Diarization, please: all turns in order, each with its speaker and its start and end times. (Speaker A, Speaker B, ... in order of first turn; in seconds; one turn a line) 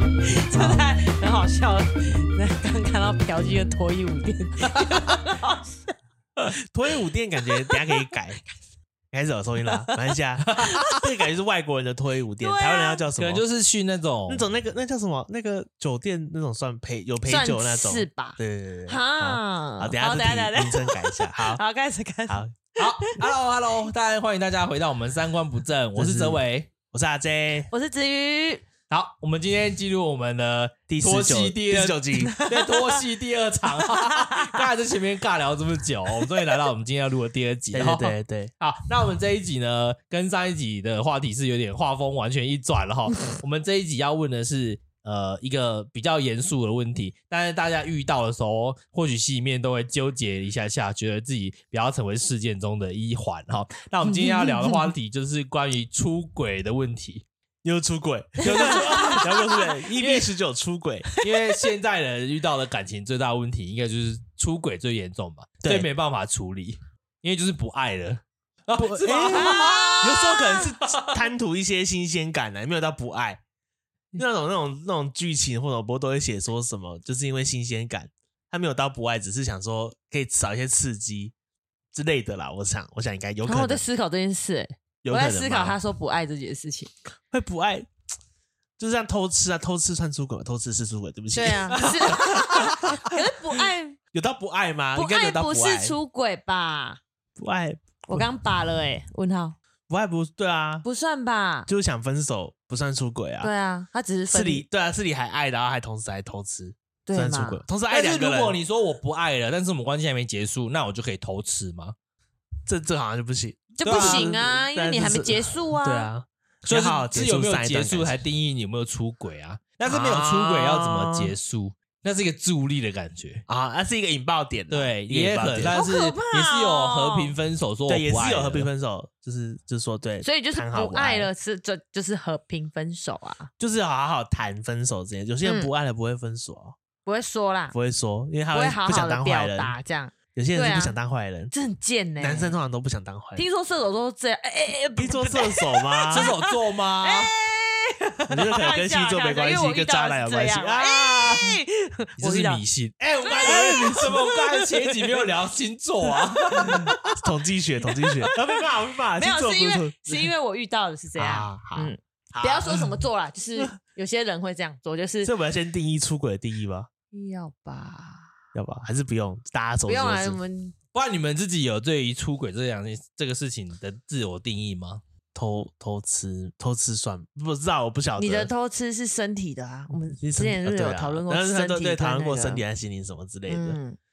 Speaker A: 0.2-5.9
Speaker B: 6.6-8.4
Speaker A: 7.4-7.9
Speaker B: 9.1-13.4
Speaker A: 9.7-9.9
Speaker C: 10.5-10.9
Speaker A: 10.6-11.0
Speaker A: 12.4-13.0
Speaker C: 13.2-14.4
Speaker B: 14.3-21.6
Speaker A: 17.2-23.2
Speaker B: 22.3-22.6
Speaker C: 22.8-26.7
Speaker B: 25.9-27.7
Speaker A: 27.7-28.6
Speaker C: 28.9-57.2
Speaker B: 30.9-32.3
Speaker A: 32.2-33.0
Speaker A: 33.8-34.6
Speaker B: 37.7-38.5
Speaker A: 54.1-54.8
Speaker B: 57.6-61.1
Speaker A: 58.4-59.8
Speaker C: 58.8-59.1
Speaker C: 60.0-60.3
Speaker C: 61.2-70.0
Speaker B: 65.6-65.9
Speaker B: 68.7-73.4
Speaker A: 69.3-70.7
Speaker C: 70.8-71.2
Speaker B: 74.1-81.3
Speaker B: 81.9-83.8
Speaker A: 83.4-86.9
Speaker B: 85.0-85.8
Speaker B: 87.3-87.9
Speaker B: 88.8-93.1
Speaker A: 91.3-94.0
Speaker B: 94.1-96.0
Speaker A: 94.9-97.0
Speaker B: 97.4-98.3
Speaker A: 98.1-99.5
Speaker B: 99.9-100.8
Speaker A: 100.8-101.7
Speaker B: 101.7-103.5
Speaker A: 103.4-104.6
Speaker B: 104.3-108.6
Speaker A: 107.0-107.6
Speaker C: 107.9-111.9
Speaker B: 112.7-118.1
Speaker A: 113.8-116.1
Speaker C: 113.8-114.3
Speaker C: 116.7-123.4
Speaker B: 119.8-121.3
Speaker B: 123.5-125.8
Speaker C: 124.7-128.7
Speaker A: 125.7-127.3
Speaker B: 127.9-131.3
Speaker A: 130.2-133.5
Speaker B: 133.6-136.8
Speaker A: 135.4-135.7
Speaker A: 137.0-137.7
Speaker B: 137.7-139.7
Speaker A: 138.5-141.0
Speaker B: 140.3-141.5
Speaker A: 141.5-142.6
Speaker B: 142.2-143.4
Speaker A: 143.3-152.6
Speaker B: 145.0-146.3
Speaker C: 146.1-147.3
Speaker B: 148.3-151.6
Speaker C: 152.2-156.9
Speaker A: 153.3-154.6
Speaker B: 153.4-154.1
Speaker A: 156.5-157.2
Speaker B: 156.8-160.3
Speaker A: 158.0-158.3
Speaker A: 159.1-165.3
Speaker B: 161.2-162.9
Speaker B: 165.2-166.9
Speaker A: 167.1-168.3
Speaker B: 168.5-170.4
Speaker A: 169.8-170.7
Speaker C: 170.9-175.0
Speaker B: 175.3-178.5
Speaker A: 178.2-182.6
Speaker B: 180.2-183.8
Speaker A: 183.5-184.0